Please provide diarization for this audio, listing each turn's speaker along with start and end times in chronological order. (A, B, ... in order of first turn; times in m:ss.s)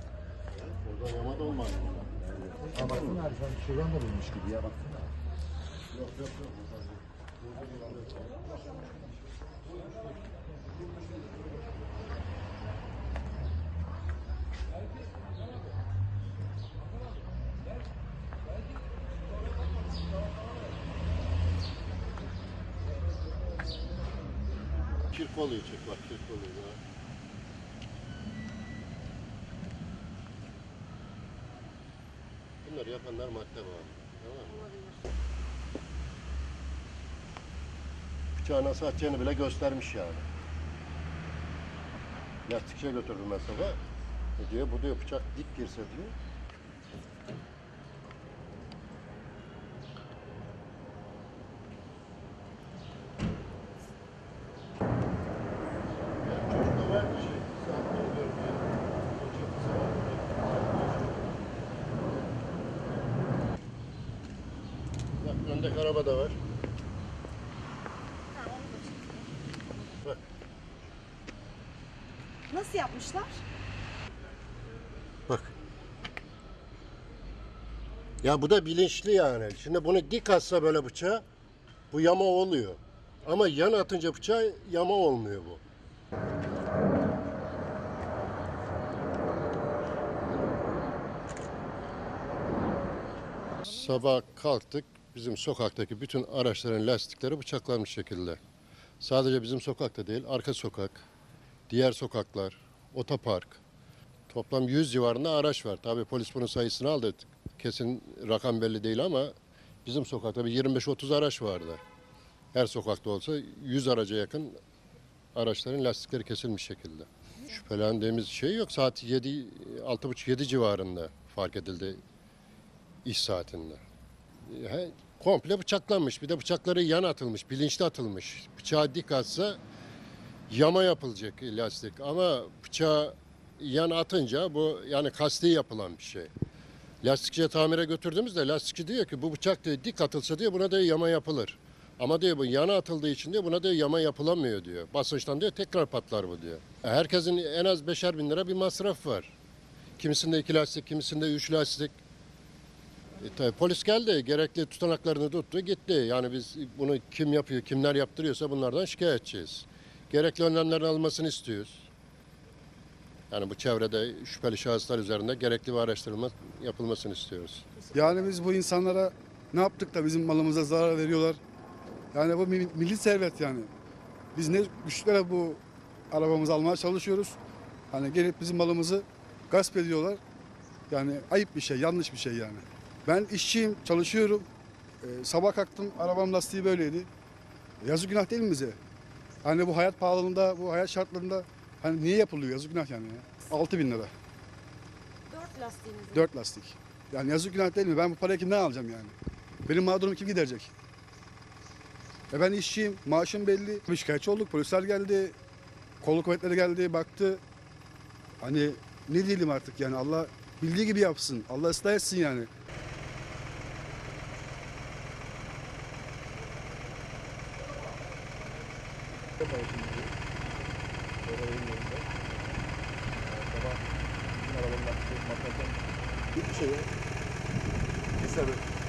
0:00.5-0:02.1 A
0:02.9-0:04.9 B
0:05.9-0:06.8 A
0:07.4-0:08.2 A
0:25.1-0:26.8 A
0:32.6-0:34.6 A
0:34.5-0:35.0 C
0:38.4-0:40.2 A
0:42.4-0:43.8 A
0:44.4-0:46.1 A
0:56.2-1:01.3 A
1:05.2-1:06.4 A
1:08.3-1:09.3 C
1:12.5-1:13.4 C
1:18.2-1:21.2 A
1:21.9-1:25.6 A
1:33.6-1:38.4 A
1:39.0-1:41.0 A
1:41.7-1:43.6 A
1:44.3-1:49.3 A
1:49.8-1:51.8 A
1:52.5-1:54.6 A
1:55.3-2:02.0 A
2:03.0-2:03.8 A
2:04.4-2:09.6 A
2:10.5-2:16.3 A
2:17.0-2:29.3 A
2:30.0-2:32.0 A
2:33.2-2:41.9 A
2:43.3-2:47.6 A
2:47.8-2:48.0 C
2:47.9-2:51.4 D
2:52.1-2:53.7 D
2:54.3-2:57.4 D
2:57.9-3:00.2 D
3:00.9-3:04.4 D
3:05.0-3:07.1 D
3:07.8-3:08.8 D
3:09.4-3:14.1 D
3:15.3-3:16.2 C
3:16.1-3:19.1 D
3:19.6-3:20.7 D
3:22.3-3:25.3 D
3:26.0-3:27.4 D
3:28.4-3:32.5 D
3:39.4-3:40.0 D
3:39.7-3:40.0 B
3:41.3-3:42.0 B
3:41.3-3:42.0 D
3:44.5-3:45.7 B
3:44.7-3:45.5 D
3:46.3-3:46.9 D
3:48.2-3:48.6 D